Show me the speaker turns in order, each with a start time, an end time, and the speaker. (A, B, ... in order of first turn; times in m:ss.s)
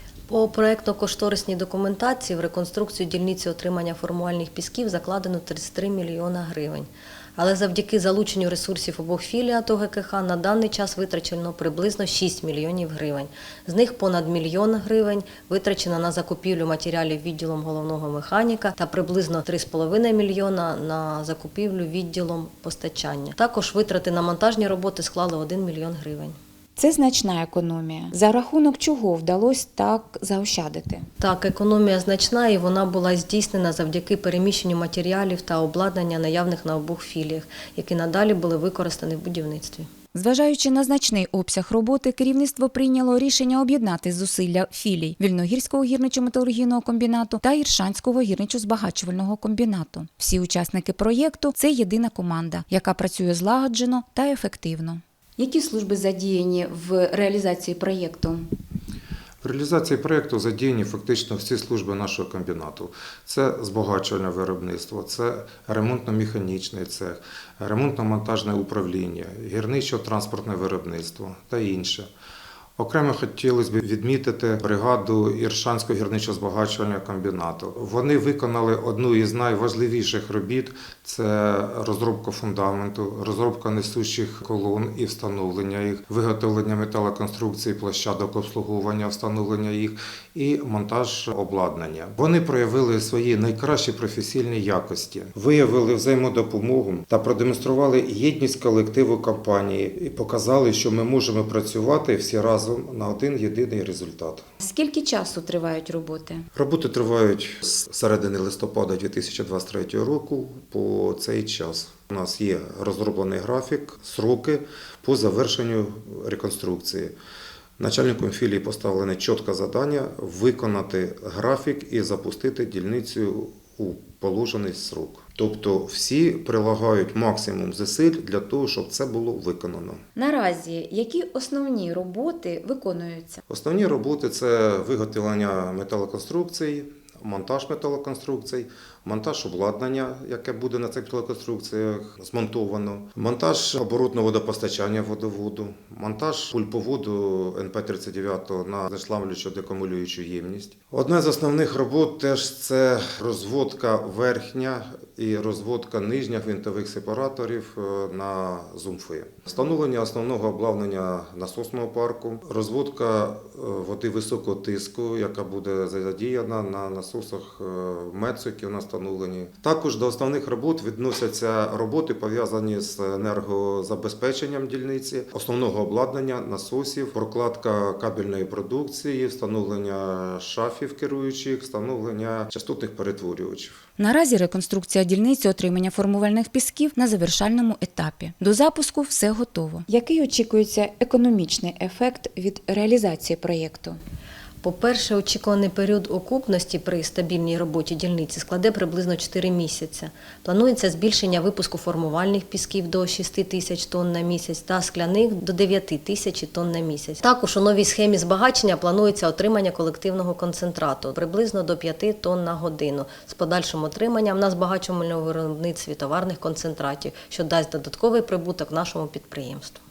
0:00.3-0:26.4 A
0:26.8-0:31.1 B
0:31.2-0:39.9 A
0:40.1-0:58.4 B
0:59.4-1:12.1 C
1:12.8-1:44.5 C
1:44.6-1:46.5 B
1:46.5-1:57.1 C
1:57.8-2:10.0 C
2:10.2-2:13.4 B
2:13.5-3:03.8 C
3:04.0-3:14.0 B
3:14.6-3:39.8 A